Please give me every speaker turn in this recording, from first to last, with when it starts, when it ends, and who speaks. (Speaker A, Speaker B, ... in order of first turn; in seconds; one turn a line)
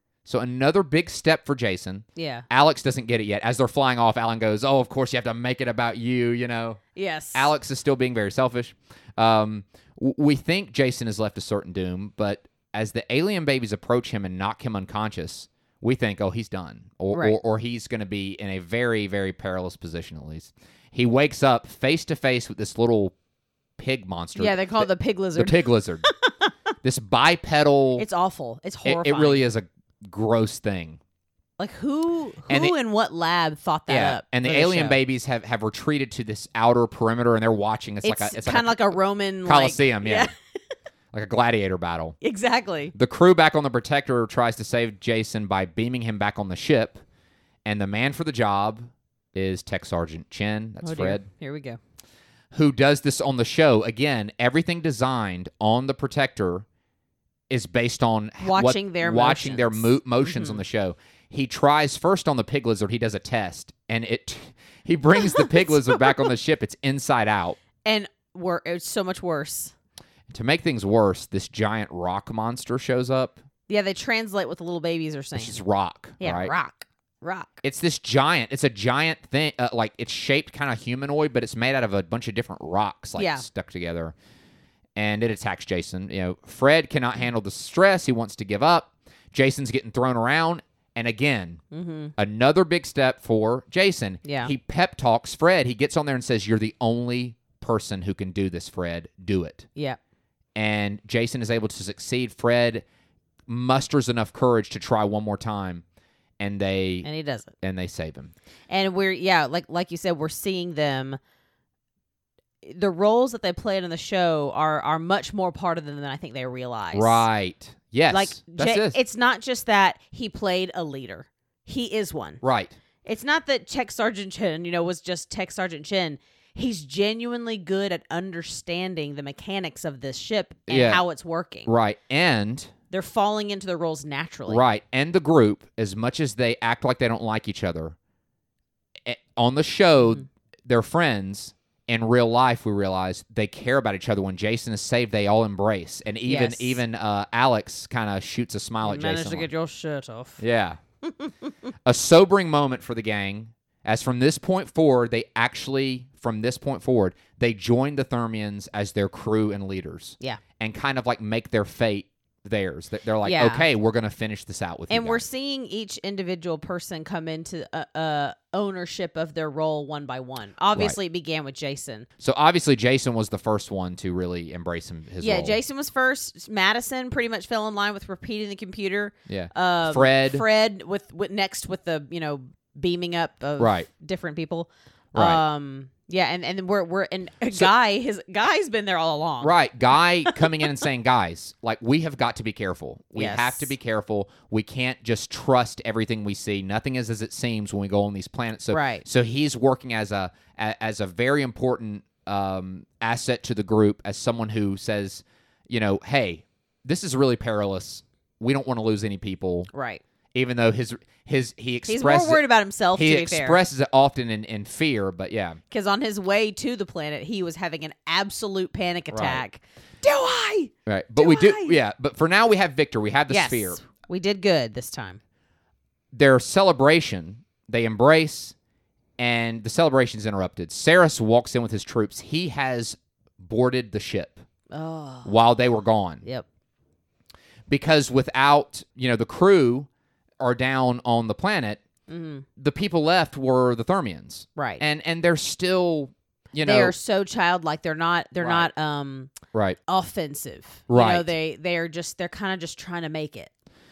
Speaker A: 0.2-6.8
Speaker B: 2.2-2.5
Speaker B: 7.0-7.5
Speaker A: 7.3-23.1
Speaker A: 23.8-26.1
Speaker B: 24.4-26.5
Speaker A: 26.8-28.1
Speaker B: 28.0-29.5
Speaker A: 28.9-31.0
Speaker B: 31.6-35.0
Speaker A: 32.5-32.8
Speaker A: 33.9-40.3
Speaker B: 38.0-40.3
Speaker A: 41.1-42.2
Speaker B: 42.2-42.9
Speaker A: 42.9-47.0
Speaker A: 47.6-51.3
Speaker B: 50.8-51.8
Speaker A: 52.5-56.7
Speaker A: 57.5-67.6
Speaker B: 58.4-60.6
Speaker B: 65.2-66.2
Speaker B: 67.8-69.7
Speaker A: 70.3-73.4
Speaker B: 73.7-75.6
Speaker A: 75.3-76.5
Speaker B: 76.2-77.6
Speaker A: 77.6-84.1
Speaker B: 83.2-83.5
Speaker A: 85.0-91.6
Speaker B: 91.7-92.1
Speaker A: 92.2-99.7
Speaker B: 94.2-94.5
Speaker A: 100.6-102.8
Speaker A: 103.5-105.8
Speaker A: 106.4-107.1
Speaker B: 107.0-107.5
Speaker A: 107.6-108.3
Speaker B: 108.7-111.2
Speaker B: 112.6-117.3
Speaker A: 116.9-119.0
Speaker B: 118.1-122.4
Speaker A: 122.4-122.8
Speaker B: 123.0-131.7
Speaker A: 130.7-131.0
Speaker A: 131.7-132.7
Speaker B: 132.9-134.6
Speaker A: 134.5-138.0
Speaker A: 139.1-149.5
Speaker B: 146.3-146.8
Speaker B: 148.8-150.4
Speaker A: 150.4-150.8
Speaker B: 151.0-151.3
Speaker A: 151.8-165.2
Speaker B: 163.2-163.7
Speaker B: 164.9-172.1
Speaker A: 170.7-171.0
Speaker A: 172.2-175.6
Speaker B: 175.2-189.6
Speaker A: 179.3-180.4
Speaker A: 183.6-183.9
Speaker A: 185.1-185.4
Speaker A: 189.4-209.7
Speaker B: 190.2-190.7
Speaker B: 193.2-193.7
Speaker B: 198.7-199.0
Speaker B: 209.7-210.0
Speaker A: 210.3-212.4
Speaker B: 211.9-213.6
Speaker A: 212.9-215.6
Speaker B: 215.7-221.8
Speaker A: 219.1-219.4
Speaker A: 220.9-223.8
Speaker B: 223.3-225.2
Speaker A: 226.1-228.6
Speaker A: 229.2-234.4
Speaker B: 234.7-235.3
Speaker A: 235.2-236.2
Speaker A: 237.7-239.9
Speaker A: 240.4-241.8
Speaker B: 242.1-242.5
Speaker A: 242.6-246.9
Speaker B: 244.6-244.8
Speaker B: 246.6-249.3
Speaker A: 248.4-248.7
Speaker A: 249.5-249.8
Speaker B: 249.9-253.5
Speaker A: 250.9-251.3